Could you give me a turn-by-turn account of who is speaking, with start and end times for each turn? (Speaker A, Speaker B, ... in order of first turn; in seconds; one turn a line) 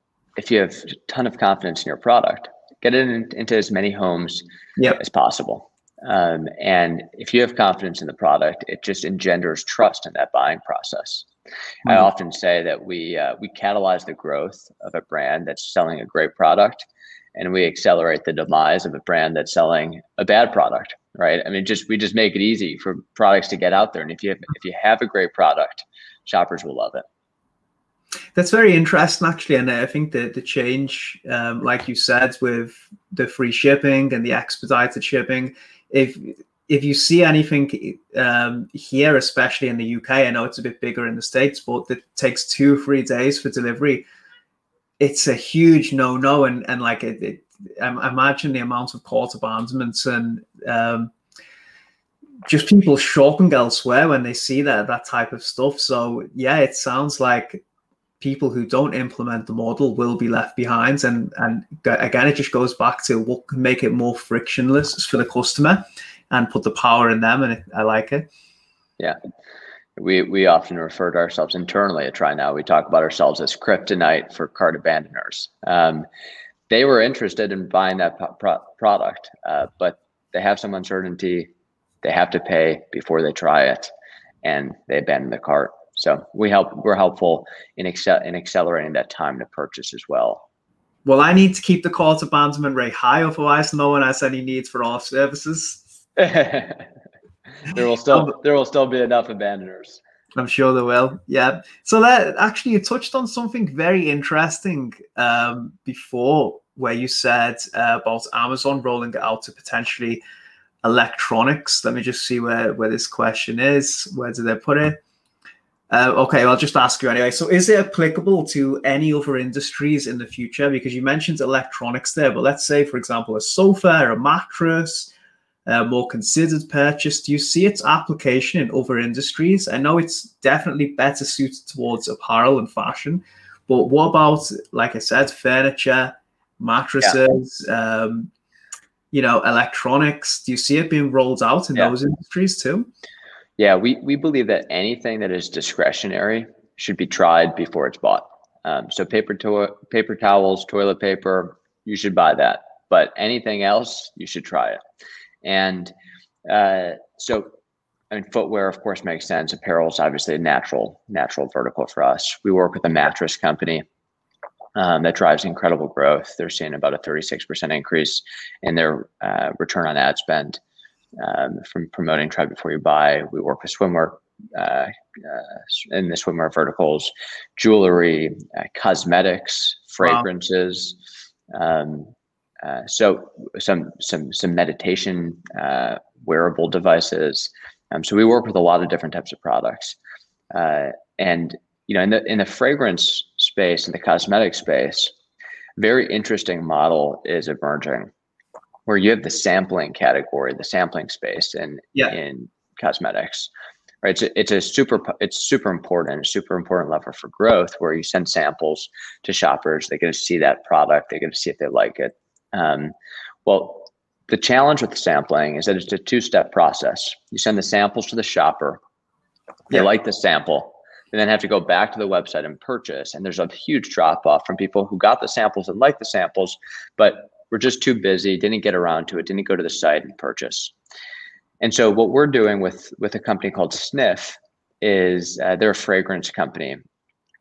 Speaker A: 0.4-4.4
Speaker A: 5.0-11.3
Speaker A: 11.8-27.0
Speaker B: 28.4-44.0
Speaker B: 45.0-51.1
Speaker B: 52.5-57.6
Speaker B: 58.2-68.3
Speaker A: 70.0-76.0
Speaker A: 76.7-81.5
Speaker A: 82.0-83.9
Speaker A: 84.4-90.4
Speaker B: 91.0-95.8
Speaker A: 96.2-96.9
Speaker A: 97.6-100.0
Speaker B: 100.3-110.2
Speaker B: 110.8-115.0
Speaker B: 115.9-125.1
Speaker B: 125.7-138.3
Speaker B: 139.1-142.9
Speaker A: 143.6-154.8
Speaker A: 155.4-155.9
Speaker A: 156.4-157.5
Speaker A: 158.1-163.8
Speaker A: 164.8-170.6
Speaker A: 171.2-181.0
Speaker B: 180.0-180.3
Speaker A: 181.5-190.0
Speaker A: 190.5-195.1
Speaker A: 195.8-198.1
Speaker A: 198.9-203.5
Speaker A: 204.0-212.9
Speaker A: 213.4-218.8
Speaker A: 219.7-230.7
Speaker A: 231.6-236.8